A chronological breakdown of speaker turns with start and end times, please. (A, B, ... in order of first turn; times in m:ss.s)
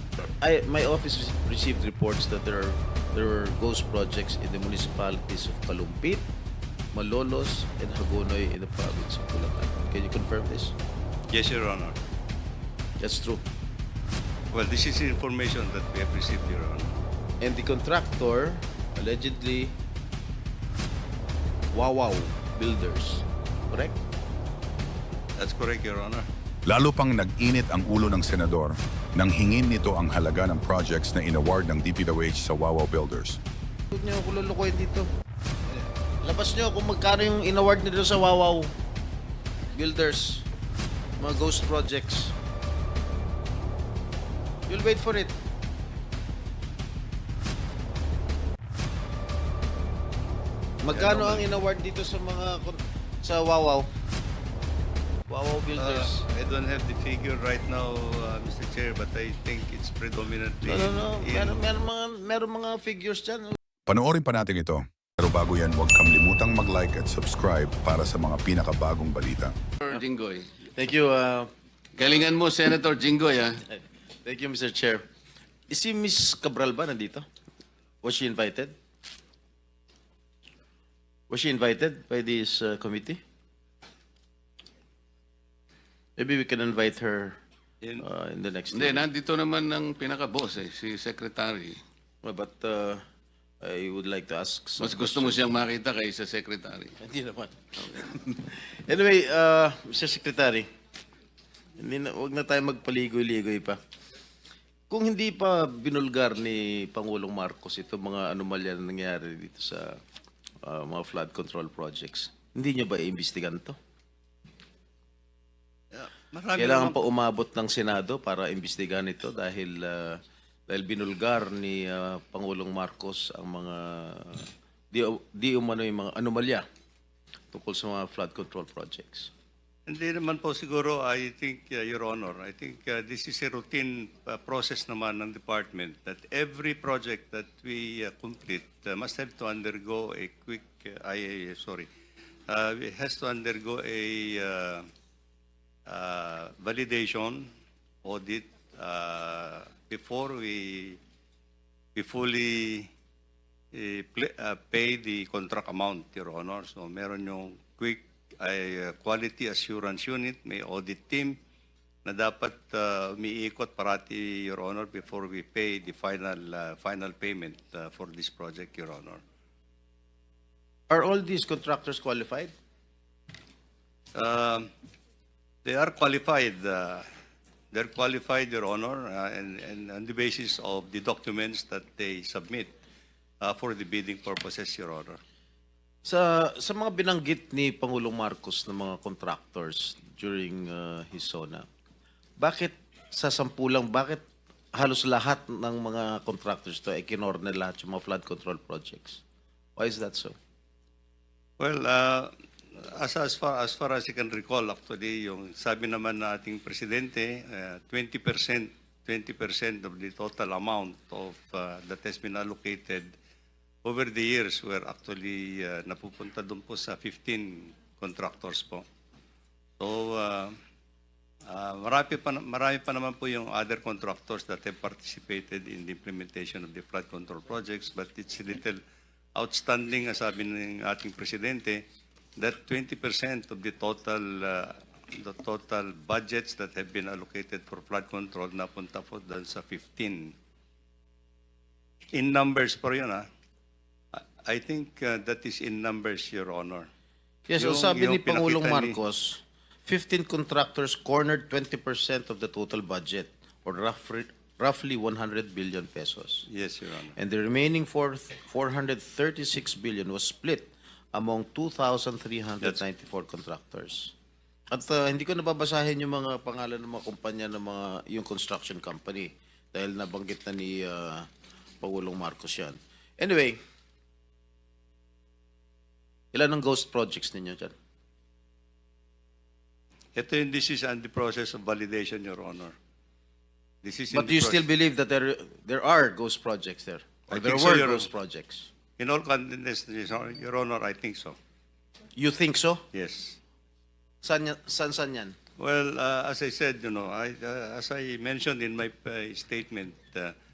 0:00.4-0:06.3 A
0:06.9-0:10.8 A
0:11.3-0:12.0 B
0:13.0-0:13.4 A
0:14.5-0:16.9 B
0:17.4-0:19.8 A
0:21.7-0:24.0 A
0:25.4-0:26.3 B
0:26.7-0:33.4 C
0:33.9-0:35.1 A
0:36.2-0:38.7 A
0:39.7-0:40.5 A
0:41.2-0:42.4 A
0:44.7-0:45.4 A
0:50.8-0:53.9 A
0:50.9-0:51.5 B
0:55.3-0:56.2 A
0:55.8-1:01.6 B
1:00.6-1:03.6 A
1:03.9-1:09.5 C
1:09.8-1:10.5 D
1:10.7-1:11.5 A
1:12.0-1:13.6 D
1:13.7-1:15.0 A
1:15.7-1:17.3 A
1:18.0-1:18.7 A
1:21.3-1:23.2 A
1:26.2-1:27.4 A
1:28.0-1:29.1 A
1:28.7-1:31.8 D
1:32.2-1:33.0 A
1:33.6-1:35.5 A
1:34.8-1:36.9 D
1:37.0-1:40.7 A
1:41.8-1:43.8 A
1:44.9-1:50.0 A
1:50.6-1:53.8 A
1:55.9-1:57.0 B
1:56.6-2:06.7 A
2:07.5-2:09.3 A
2:09.9-2:21.9 B
2:22.5-2:24.9 B
2:25.9-2:27.5 B
2:28.0-2:31.0 B
2:32.0-2:32.9 B
2:33.7-2:41.4 B
2:42.0-2:49.2 B
2:50.9-2:52.5 A
2:54.2-2:54.7 B
2:55.6-2:57.1 B
2:57.7-3:02.7 B
3:03.4-3:05.2 B
3:06.0-3:11.7 A
3:12.4-3:19.2 A
3:19.8-3:20.4 A
3:21.6-3:33.1 B
3:33.8-3:38.9 B
3:39.8-3:40.6 B
3:41.5-3:48.8 B
3:49.4-3:51.8 B
3:52.4-4:00.3 B
4:02.1-4:03.3 B
4:04.1-4:06.9 B
4:07.5-4:16.5 A
4:07.6-4:09.0 B
4:16.5-4:17.1 B
4:17.2-4:24.1 A
4:24.7-4:33.6 A
4:36.3-4:37.8 A
4:40.2-4:42.8 B
4:43.8-4:44.6 B
4:44.1-4:48.7 A
4:47.3-4:48.1 B
4:49.0-4:51.4 B
4:52.2-4:52.8 A
4:52.9-4:53.4 B
4:54.2-4:55.4 A
4:55.6-5:00.4 B